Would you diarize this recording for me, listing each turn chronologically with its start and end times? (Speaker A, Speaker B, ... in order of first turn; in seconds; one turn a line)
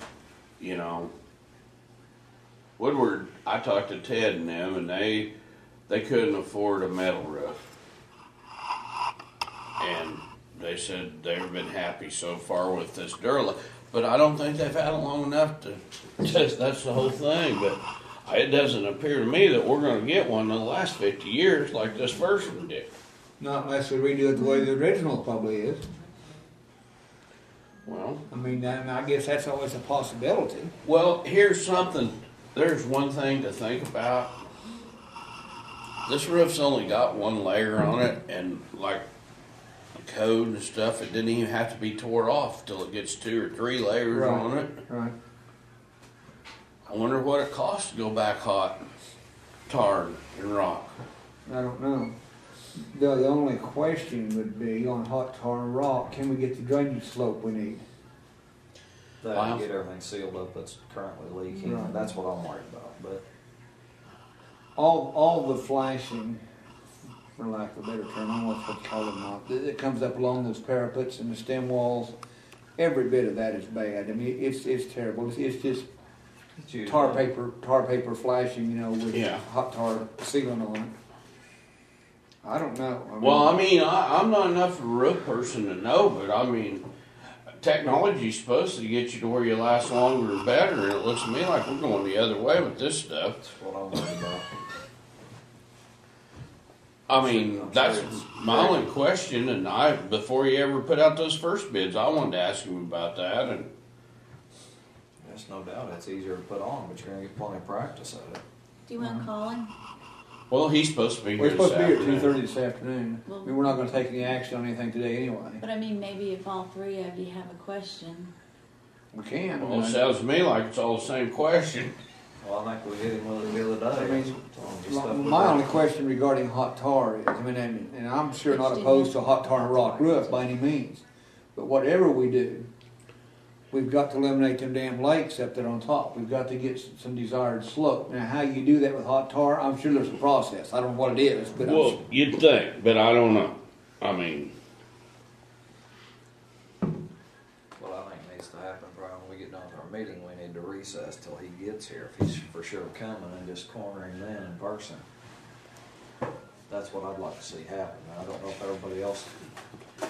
Speaker A: 0.6-1.1
Speaker A: 2.8-5.3
Speaker A: 5.9-7.7
Speaker A: 9.8-22.9
Speaker B: 23.4-25.8
Speaker A: 27.9-28.2
Speaker B: 28.3-30.7
Speaker A: 30.8-34.3
Speaker A: 36.1-39.0
Speaker A: 40.0-44.8
Speaker B: 44.1-45.1
Speaker A: 46.9-48.8
Speaker A: 49.7-51.0
Speaker B: 51.5-52.1
Speaker B: 52.8-57.8
Speaker C: 59.2-63.2
Speaker A: 59.3-59.6
Speaker B: 61.6-62.0
Speaker B: 64.8-66.4
Speaker B: 67.3-72.2
Speaker B: 72.8-75.9
Speaker C: 76.6-77.2
Speaker B: 76.9-80.9
Speaker A: 79.1-79.4
Speaker B: 82.4-83.6
Speaker A: 83.2-86.9
Speaker A: 87.6-93.4
Speaker C: 93.4-94.5
Speaker A: 97.1-103.7
Speaker C: 97.1-98.9
Speaker C: 105.2-108.4
Speaker D: 108.9-109.7
Speaker B: 109.0-109.3
Speaker A: 110.5-112.3
Speaker B: 111.4-115.6
Speaker D: 113.3-113.6
Speaker D: 115.6-118.3
Speaker B: 119.1-120.0
Speaker A: 119.6-121.9
Speaker C: 122.4-125.8
Speaker B: 123.9-131.0
Speaker D: 128.5-130.4
Speaker B: 131.6-132.7
Speaker B: 133.7-142.1
Speaker A: 141.6-144.5
Speaker C: 147.8-155.0
Speaker C: 156.7-159.4